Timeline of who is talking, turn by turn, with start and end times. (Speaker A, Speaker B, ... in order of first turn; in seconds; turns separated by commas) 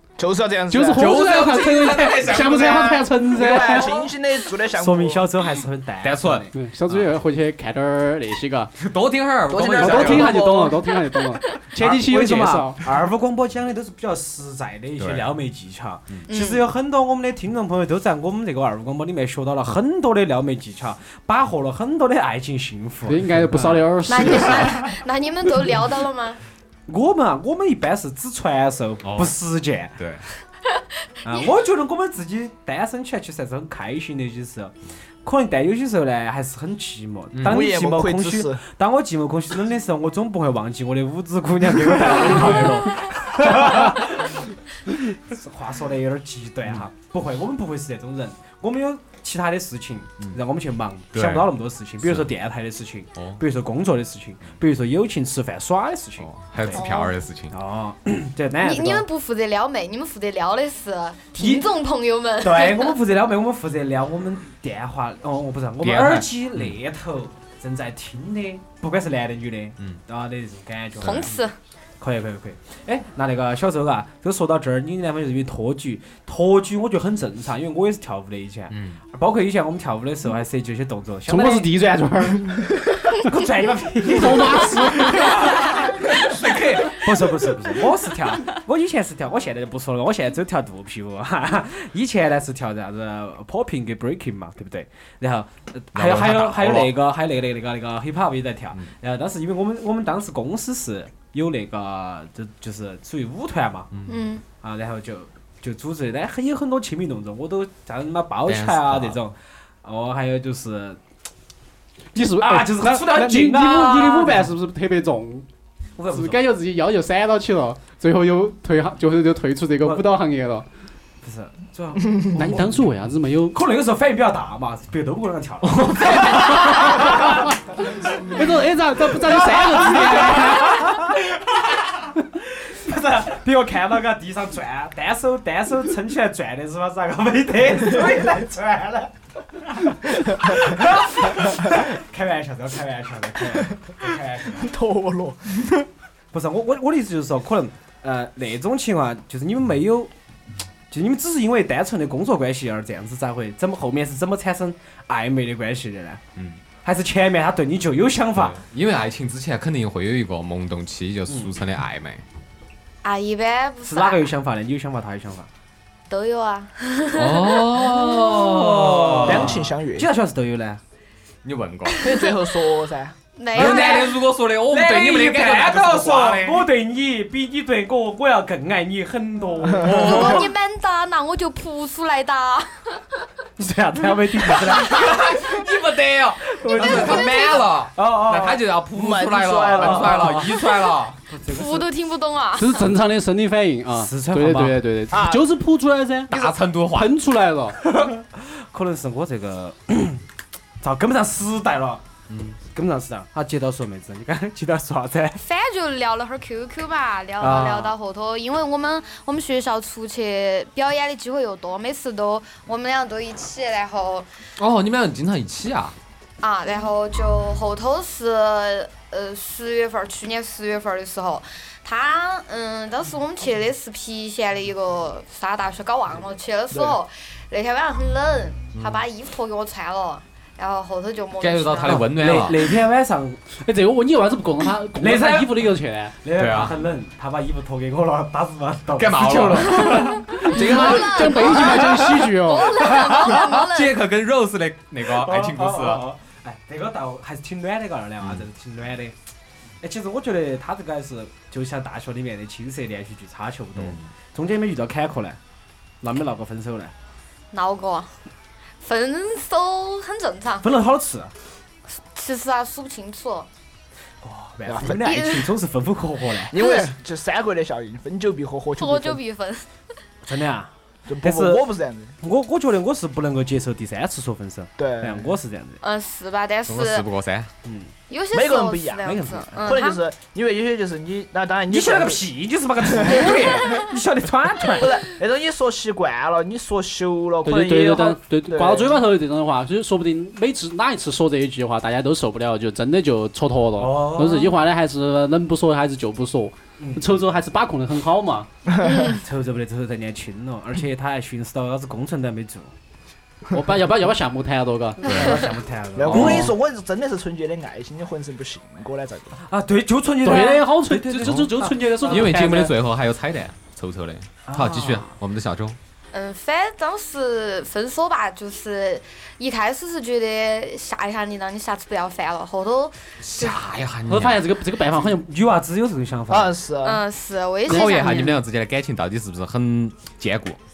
Speaker A: 0.2-1.3, Speaker B: 0.7-3.9, Speaker C: 0.9-3.1, Speaker A: 2.3-5.2, Speaker D: 4.7-6.5, Speaker C: 6.0-7.1, Speaker B: 6.5-8.7, Speaker C: 8.8-10.4, Speaker A: 9.5-10.8, Speaker B: 9.7-12.8, Speaker D: 11.8-23.9, Speaker C: 15.0-15.3, Speaker E: 16.3-16.7, Speaker B: 23.1-24.7, Speaker E: 24.1-26.4, Speaker D: 26.9-30.1, Speaker C: 29.0-29.4, Speaker C: 30.0-30.2, Speaker D: 31.2-56.8, Speaker C: 37.3-37.7, Speaker A: 37.4-38.6, Speaker C: 51.1-51.5, Speaker C: 52.0-52.3, Speaker C: 53.1-53.4, Speaker C: 56.2-57.5, Speaker E: 56.7-57.1, Speaker D: 57.5-59.0, Speaker E: 58.6-62.9, Speaker D: 61.4-61.6, Speaker D: 62.4-71.4, Speaker C: 65.8-66.8, Speaker E: 71.0-71.5, Speaker D: 72.0-81.7, Speaker C: 78.7-79.0, Speaker B: 81.3-82.8, Speaker D: 83.1-103.9, Speaker B: 84.1-85.3, Speaker C: 86.1-87.1, Speaker C: 95.9-96.9, Speaker E: 104.1-104.4, Speaker D: 104.6-111.0, Speaker C: 108.5-109.2, Speaker B: 112.1-115.5, Speaker D: 112.4-114.5, Speaker D: 116.0-116.5, Speaker B: 116.1-120.7, Speaker D: 121.2-122.7, Speaker B: 122.3-123.6, Speaker D: 123.5-128.4, Speaker C: 125.7-126.7, Speaker B: 128.2-131.0, Speaker D: 129.4-131.7, Speaker D: 132.4-144.7, Speaker A: 144.6-145.9, Speaker D: 146.3-150.1, Speaker D: 150.9-156.2, Speaker D: 156.8-158.6, Speaker C: 158.3-162.2, Speaker E: 163.0-164.3, Speaker D: 163.8-165.5, Speaker E: 166.1-168.3, Speaker C: 167.1-169.6, Speaker D: 168.1-170.8, Speaker A: 169.2-170.1, Speaker C: 171.4-172.1, Speaker E: 171.9-172.3, Speaker A: 172.0-173.2, Speaker E: 173.4-174.1, Speaker C: 173.5-176.7, Speaker D: 173.5-180.5, Speaker A: 179.8-180.1, Speaker C: 179.8-180.5, Speaker E: 179.9-183.2, Speaker D: 183.6-185.4, Speaker C: 184.7-191.2, Speaker D: 186.5-187.4, Speaker E: 186.7-187.7, Speaker D: 187.9-188.6, Speaker A: 188.9-190.4, Speaker D: 189.7-190.6, Speaker D: 191.3-191.9, Speaker E: 191.4-192.9, Speaker B: 192.6-196.3, Speaker D: 193.9-194.8, Speaker A: 195.1-195.4, Speaker C: 196.3-197.1, Speaker B: 196.9-197.8, Speaker D: 197.8-200.2, Speaker D: 200.8-202.0, Speaker C: 202.3-202.6, Speaker D: 202.7-205.4, Speaker E: 205.4-214.3, Speaker D: 207.4-207.9, Speaker C: 214.6-215.9, Speaker E: 216.4-232.1, Speaker A: 226.7-227.0, Speaker C: 228.8-229.0, Speaker C: 231.4-232.7, Speaker D: 231.9-233.4, Speaker B: 233.6-236.1, Speaker D: 235.0-242.1, Speaker C: 236.3-236.8, Speaker C: 238.9-241.1, Speaker E: 239.8-244.0, Speaker B: 240.3-242.8, Speaker D: 242.8-243.4, Speaker C: 243.1-246.1, Speaker D: 245.1-249.1, Speaker C: 248.2-248.5, Speaker D: 249.8-255.4, Speaker C: 253.8-254.0, Speaker D: 256.0-256.9, Speaker E: 257.5-258.1, Speaker E: 258.8-260.7, Speaker D: 260.6-261.3, Speaker E: 262.0-263.5, Speaker D: 264.2-266.6, Speaker A: 264.7-265.0, Speaker E: 265.0-265.5, Speaker A: 266.5-269.2, Speaker E: 266.5-266.9, Speaker E: 268.8-269.7, Speaker D: 270.2-271.7, Speaker A: 271.1-272.1, Speaker D: 272.2-275.8, Speaker A: 274.8-275.4, Speaker E: 275.8-277.1, Speaker C: 276.7-277.5, Speaker D: 277.6-277.9, Speaker E: 278.1-280.0, Speaker A: 278.3-279.1, Speaker D: 279.0-279.8, Speaker A: 279.6-282.2, Speaker D: 281.7-285.0, Speaker A: 282.8-283.8, Speaker A: 284.7-289.0, Speaker B: 287.4-298.5, Speaker D: 293.8-294.5, Speaker D: 296.8-297.0, Speaker A: 298.8-299.1, Speaker E: 298.8-299.2, Speaker D: 299.2-302.7, Speaker B: 303.5-305.1, Speaker D: 305.0-306.5, Speaker C: 305.1-305.4, Speaker A: 305.9-309.4, Speaker C: 306.1-306.5, Speaker D: 309.5-312.5, Speaker B: 310.2-312.7, Speaker E: 310.3-310.6, Speaker C: 312.0-315.8, Speaker D: 314.4-315.1, Speaker E: 316.1-323.6, Speaker C: 323.2-324.4, Speaker B: 324.1-325.3, Speaker D: 325.1-326.6, Speaker A: 326.3-327.0, Speaker E: 326.8-328.4, Speaker C: 327.7-330.6, Speaker B: 327.7-328.4